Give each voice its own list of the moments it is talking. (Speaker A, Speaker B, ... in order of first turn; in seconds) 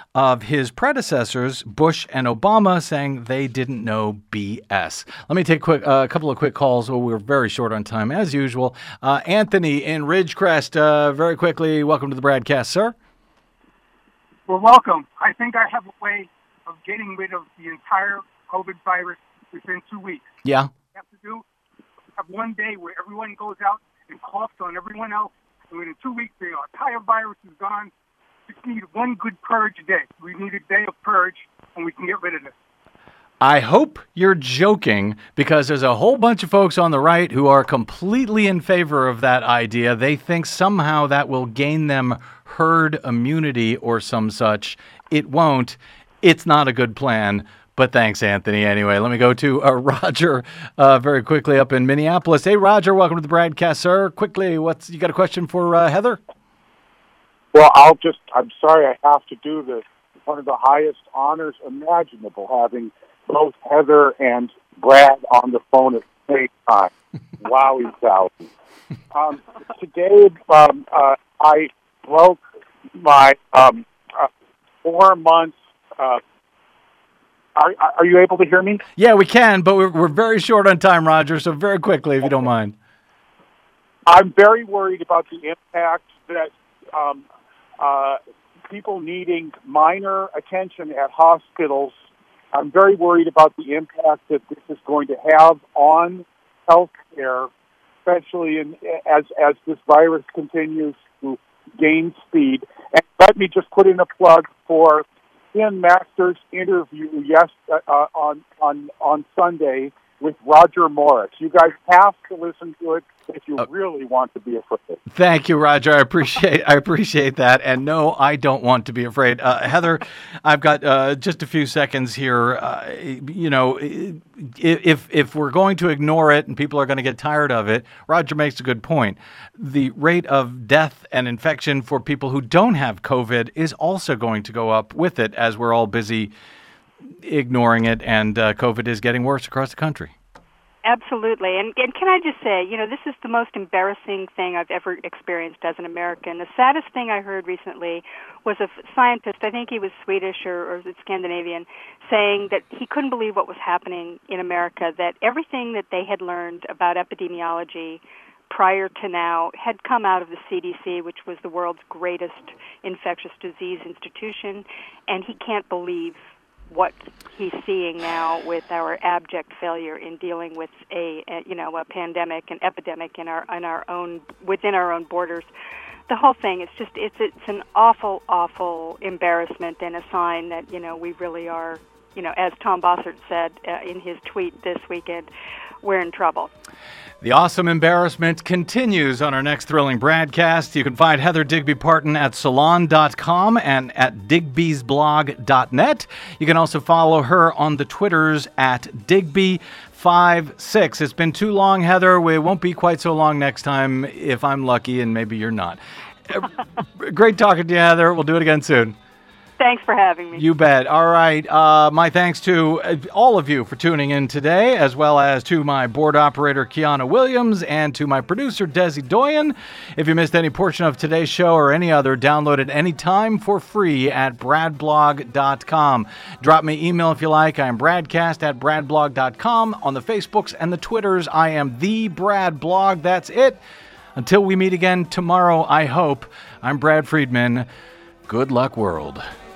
Speaker A: 0.1-12.9, 20.4-20.7, 33.4-56.2, 79.0-82.8, 115.1-136.3, 137.2-140.1, 187.2-208.9, 210.4-233.6, 234.2-237.7, 238.3-239.2
Speaker B: 14.5-20.3, 20.9-21.4, 22.2-27.9, 28.5-32.5
Speaker C: 57.5-68.4, 69.1-72.4, 73.0-74.3, 74.8-76.2, 77.6-78.8, 84.1-87.2, 87.8-92.0, 92.5-97.5, 98.1-115.0
Speaker D: 140.8-175.5, 176.1-185.3, 185.8-186.5, 209.6-210.4